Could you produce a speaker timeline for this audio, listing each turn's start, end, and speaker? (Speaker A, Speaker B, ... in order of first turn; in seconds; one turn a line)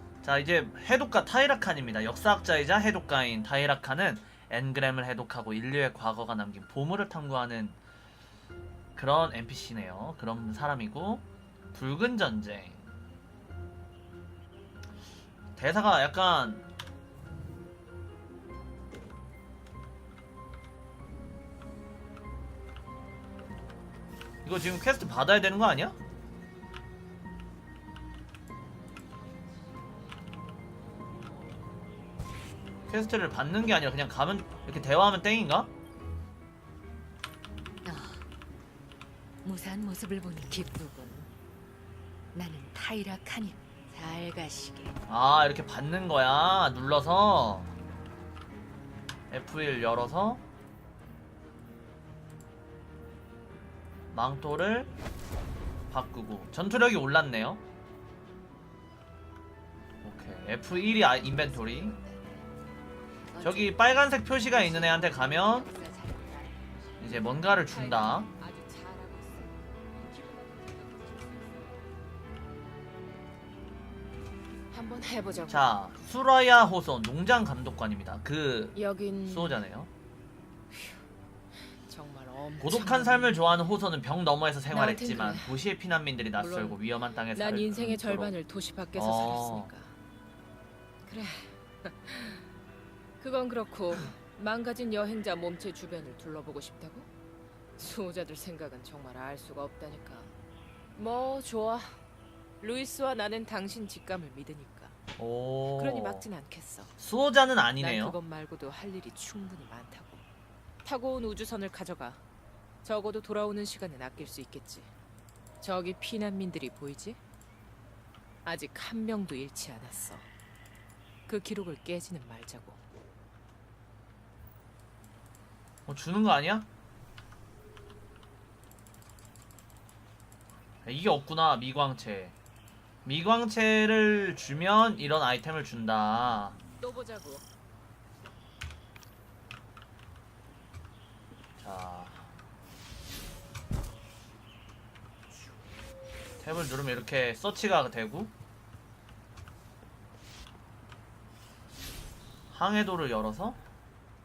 Speaker A: 0.2-7.8
Speaker A: 9.0-12.9
Speaker A: 15.6-16.6
Speaker A: 24.4-26.0
Speaker A: 32.9-35.7
Speaker B: 37.8-38.3
Speaker B: 39.4-41.3
Speaker B: 42.3-45.0
Speaker A: 45.1-47.7
Speaker A: 49.3-50.4
Speaker A: 54.1-54.9
Speaker A: 55.9-57.6
Speaker A: 60.0-62.0
Speaker B: 60.8-62.5
Speaker B: 63.3-66.9
Speaker A: 63.4-65.7
Speaker A: 67.0-68.3
Speaker C: 67.7-71.8
Speaker C: 74.7-75.7
Speaker A: 75.5-79.9
Speaker C: 78.8-79.6
Speaker C: 80.7-81.0
Speaker C: 81.9-83.5
Speaker A: 82.6-88.3
Speaker C: 84.7-85.6
Speaker C: 86.3-89.9
Speaker A: 89.0-89.7
Speaker C: 91.1-92.4
Speaker C: 93.2-97.1
Speaker C: 97.8-100.3
Speaker C: 101.0-102.0
Speaker C: 102.6-105.0
Speaker A: 105.2-106.3
Speaker C: 105.7-106.9
Speaker A: 107.0-108.2
Speaker C: 107.8-110.2
Speaker C: 110.8-112.2
Speaker C: 112.8-114.9
Speaker C: 115.6-117.2
Speaker C: 118.5-120.3
Speaker C: 121.3-122.8
Speaker A: 125.9-126.7
Speaker A: 130.8-132.3
Speaker A: 133.1-136.6
Speaker C: 136.8-137.4
Speaker A: 141.6-142.3
Speaker A: 146.4-148.3
Speaker A: 152.5-153.6